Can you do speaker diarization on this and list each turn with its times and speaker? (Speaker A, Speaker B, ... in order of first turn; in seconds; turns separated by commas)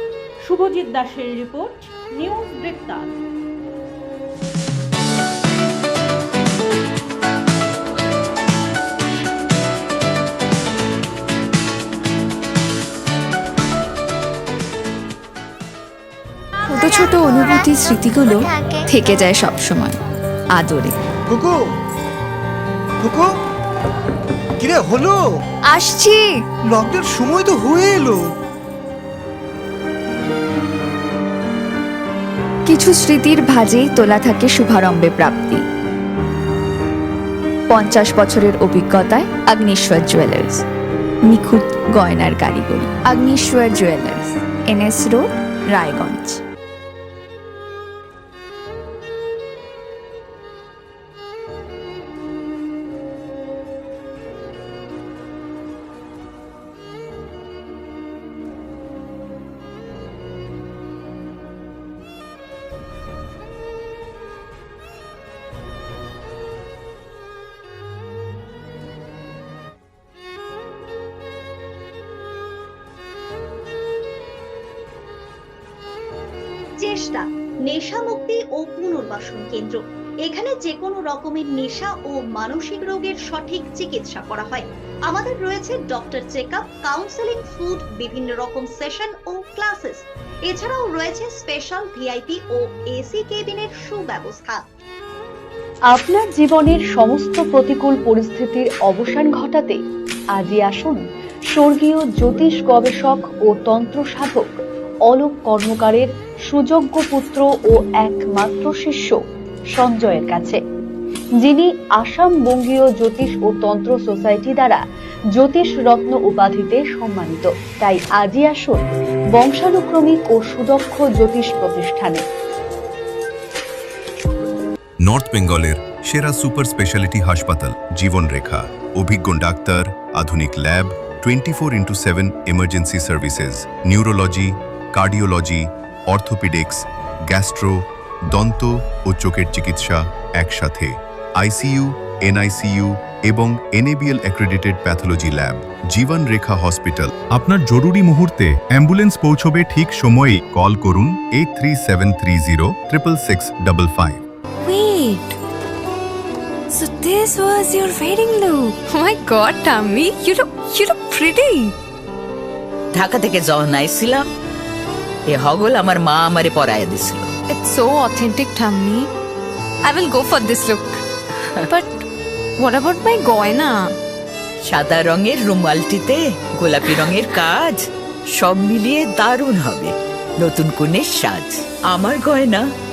Speaker A: 0.5-3.1, Speaker B: 16.7-20.0, Speaker C: 17.0-17.6, Speaker C: 18.3-18.9, Speaker B: 20.6-20.9, Speaker D: 21.3-21.6, Speaker D: 23.0-23.3, Speaker D: 24.6-25.2, Speaker B: 25.7-26.3, Speaker D: 26.7-28.3, Speaker B: 32.7-35.6, Speaker B: 37.7-40.6, Speaker B: 41.3-46.4, Speaker C: 76.8-94.7, Speaker E: 95.9-99.8, Speaker E: 100.3-101.0, Speaker E: 101.5-104.5, Speaker E: 105.1-109.2, Speaker E: 109.8-110.6, Speaker E: 111.4-114.8, Speaker E: 115.4-118.8, Speaker E: 119.3-122.2, Speaker F: 125.0-154.2, Speaker G: 154.6-155.4, Speaker G: 156.7-161.8, Speaker H: 162.9-164.3, Speaker H: 165.3-167.3, Speaker G: 167.5-169.1, Speaker G: 169.8-171.0, Speaker G: 171.7-172.1, Speaker G: 172.6-174.0, Speaker H: 174.6-177.8, Speaker G: 176.8-177.3, Speaker H: 178.3-182.7